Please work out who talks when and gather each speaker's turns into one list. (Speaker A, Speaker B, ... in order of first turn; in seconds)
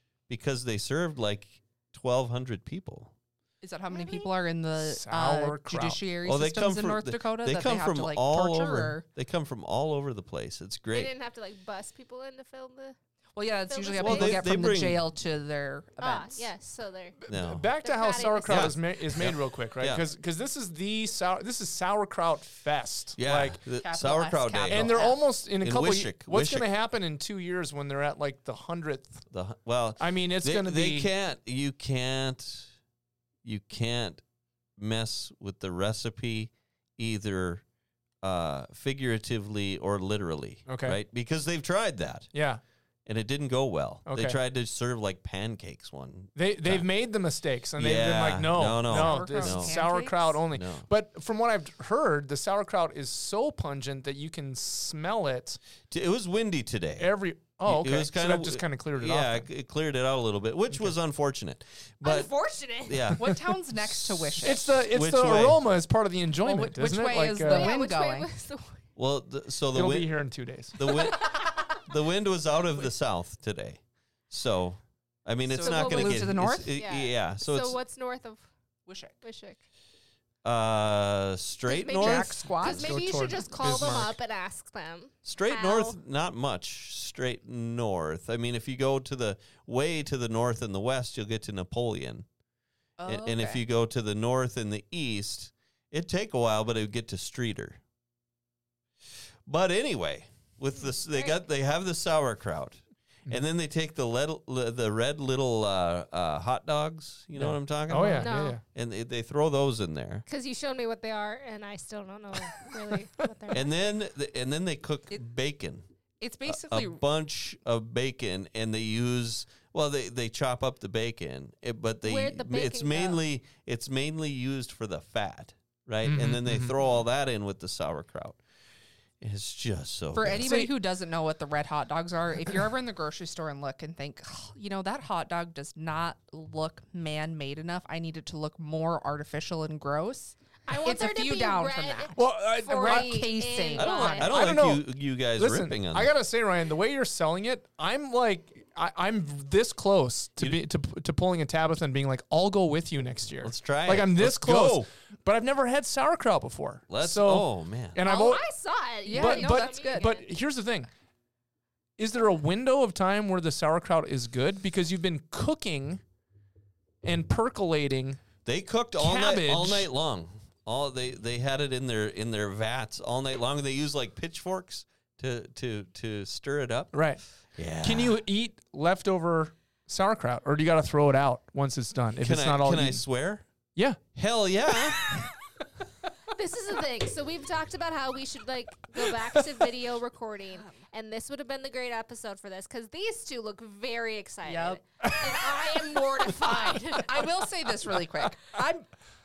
Speaker A: 0.3-3.1, 6.2-11.1, 14.0-15.0, 17.3-17.7, 18.5-20.1, 23.2-25.0, 25.6-26.7, 29.3-32.7, 33.4-34.2, 34.8-37.6, 38.2-42.3, 43.1-46.9, 47.8-49.8, 50.5-50.9, 55.9-57.1, 57.6-62.3, 62.9-65.7, 69.0-70.2, 70.8-77.8, 80.4-84.1, 85.2-92.3, 93.1-97.8, 99.5-110.2, 113.5-115.8, 116.5-128.4, 129.2-130.5, 143.8-146.1, 150.4-150.6, 153.4-154.9, 156.9-158.0, 168.4-176.9, 177.6-178.2, 182.2-183.5, 184.2-185.0
Speaker B: 3.6-9.1, 13.4-16.5, 23.8-25.3, 48.9-50.4, 63.2-64.8, 66.4-68.3, 75.5-76.7, 78.9-79.2, 82.0-83.8, 93.0-93.6, 116.2-117.0, 130.1-142.2, 142.7-144.3, 159.1-160.1, 190.5-190.8, 194.4-194.8, 196.4-198.9
Speaker C: 3.9-4.3, 10.9-13.0, 13.7-14.4, 16.0-17.2, 17.8-18.7, 62.0-63.1, 67.4-68.8, 75.6-78.5, 79.2-79.6, 81.7-86.0, 101.1-101.4, 108.1-108.6, 110.3-113.7, 122.0-123.2, 140.7-144.3, 158.1-160.3, 186.3-197.1
Speaker D: 4.8-6.0, 17.2-23.6, 24.7-29.3, 30.0-31.1, 40.7-41.0, 42.3-42.6, 44.1-44.4, 46.4-55.6, 57.0-59.5, 60.7-61.0, 64.4-67.7, 69.7-70.8, 82.5-84.1, 107.4-108.6, 126.0-126.8, 130.2-130.7, 142.2-143.3, 144.2-158.4, 159.1-160.9, 162.0-166.0, 167.0-168.2, 168.9-169.9, 176.9-177.2, 177.8-183.1, 183.8-184.1, 189.0-189.4, 195.0-195.5